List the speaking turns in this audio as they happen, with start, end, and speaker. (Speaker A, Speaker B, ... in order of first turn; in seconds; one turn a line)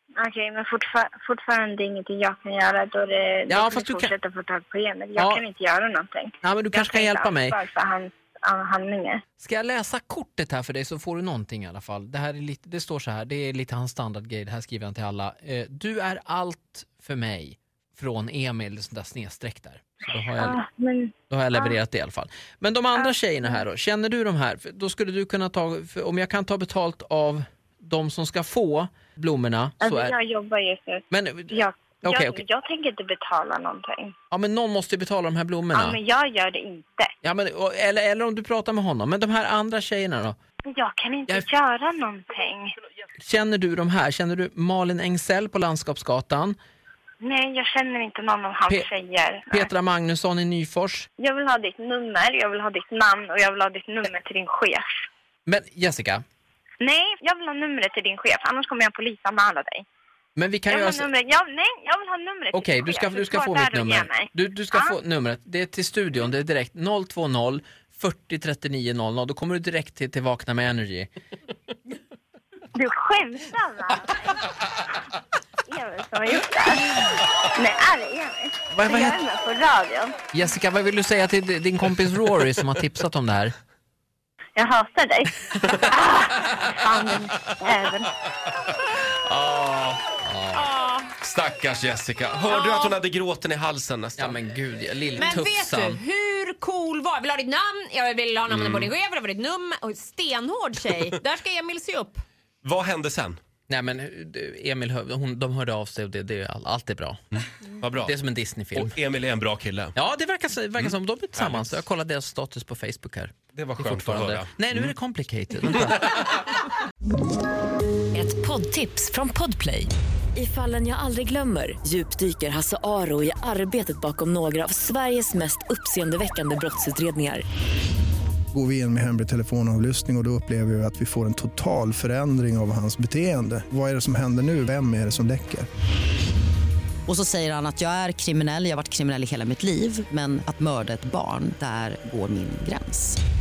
Speaker A: 0.2-9.2
Speaker B: 3.5-4.1
Speaker B: 5.2-5.5
Speaker B: 6.4-7.6
Speaker B: 9.4-20.6
Speaker A: 20.4-21.8
Speaker B: 21.3-30.2
Speaker A: 22.9-23.6
Speaker A: 29.8-34.1
Speaker B: 31.1-32.4
Speaker B: 34.3-36.0
Speaker A: 35.7-37.1
Speaker B: 37.2-40.4
Speaker A: 40.7-42.7
Speaker B: 43.2-46.6
Speaker A: 47.2-49.7
Speaker B: 49.5-51.1
Speaker A: 51.2-54.9
Speaker B: 55.5-56.2
Speaker A: 56.8-59.8
Speaker B: 60.4-61.1
Speaker A: 60.7-65.0
Speaker B: 62.5-71.1
Speaker A: 72.8-74.4
Speaker A: 75.7-80.2
Speaker B: 78.7-79.2
Speaker B: 80.3-83.5
Speaker A: 84.6-88.1
Speaker B: 89.2-90.7
Speaker C: 90.5-91.1
Speaker D: 91.2-94.4
Speaker C: 92.5-92.9
Speaker B: 94.2-96.0
Speaker C: 95.2-102.2
Speaker D: 98.5-98.9
Speaker D: 102.6-103.4
Speaker B: 103.7-107.2
Speaker D: 107.8-108.1
Speaker B: 108.0-109.0
Speaker D: 108.8-109.9
Speaker B: 110.0-116.4
Speaker D: 111.4-111.7
Speaker D: 113.5-114.9
Speaker E: 118.1-127.4
Speaker F: 128.5-135.7
Speaker G: 137.1-143.2